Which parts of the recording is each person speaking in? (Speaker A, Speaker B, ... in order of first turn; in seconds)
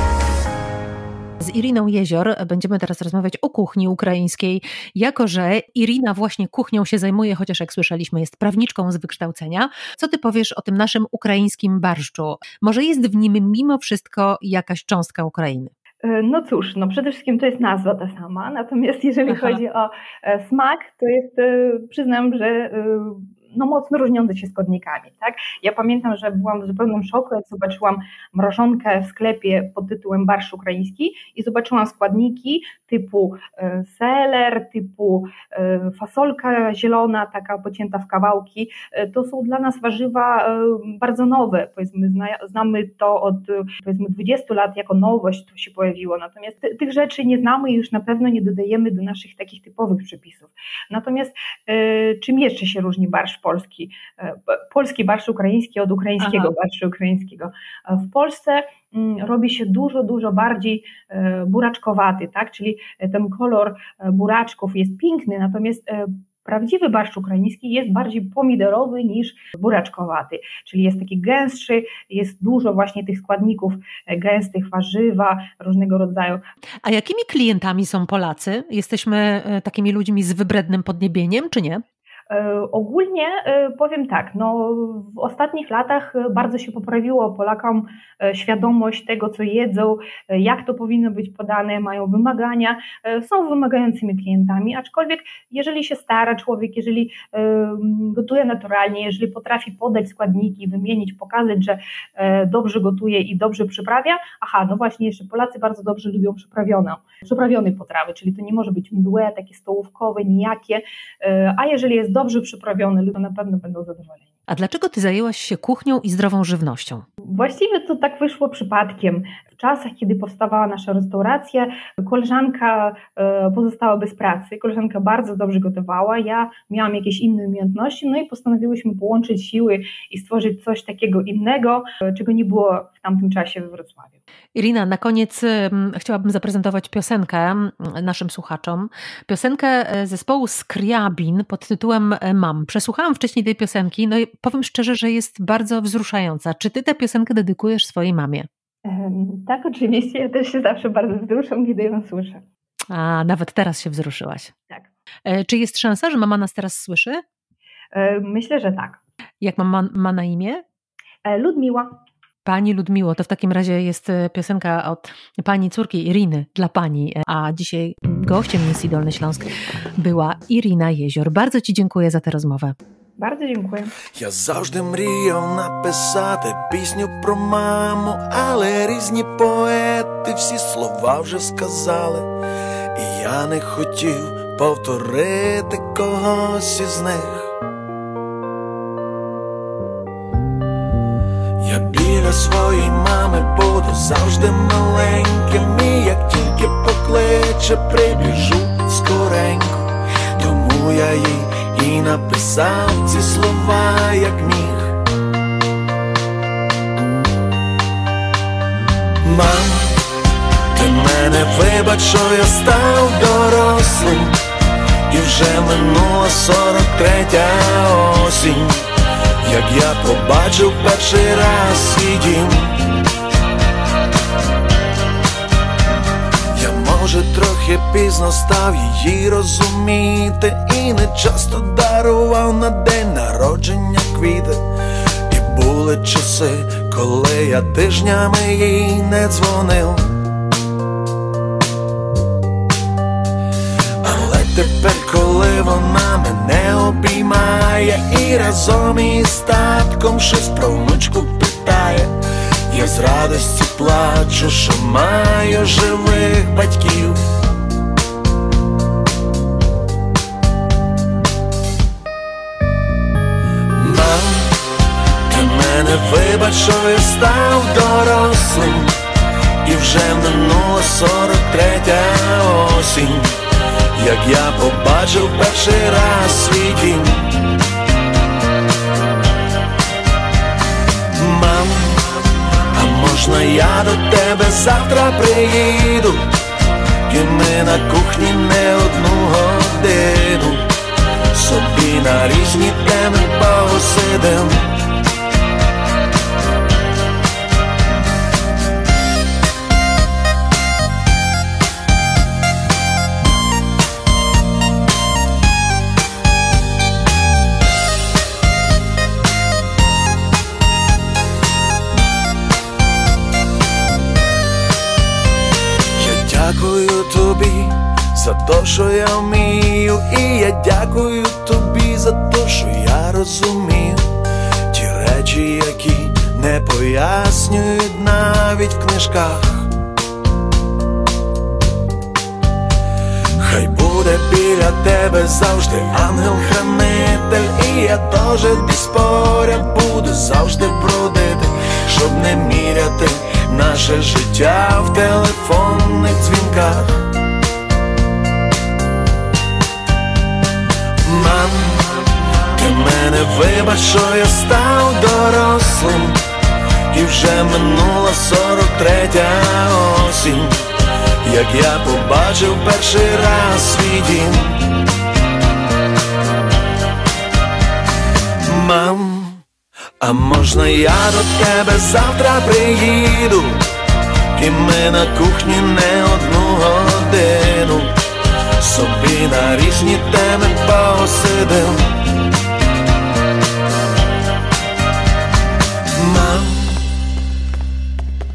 Speaker A: 1.4-15.7, 19.3-19.6, 56.2-56.5, 76.8-81.8, 114.5-117.0, 134.6-148.5, 152.9-154.5, 155.3-157.2, 159.4-160.6, 162.4-172.8
Speaker B: 16.0-76.4, 82.3-114.3, 117.2-134.2, 148.8-152.4, 157.9-159.0, 161.2-161.9, 173.2-173.9
Speaker C: 174.1-182.3, 182.9-187.5, 191.6-205.0, 209.2-210.1, 210.7-214.4, 215.1-218.9, 219.4-222.9, 226.5-234.6, 235.3-240.1, 244.0-252.1, 252.7-257.2, 263.7-264.7, 265.3-269.0, 269.6-273.4, 273.9-277.4, 281.1-286.4, 287.1-290.7, 291.3-294.7, 316.0-324.1, 324.7-329.7, 333.4-347.1, 351.0-356.2, 356.9-360.6, 361.2-364.7, 368.4-369.4, 370.0-373.6, 374.3-378.0, 378.6-381.9, 385.9-386.8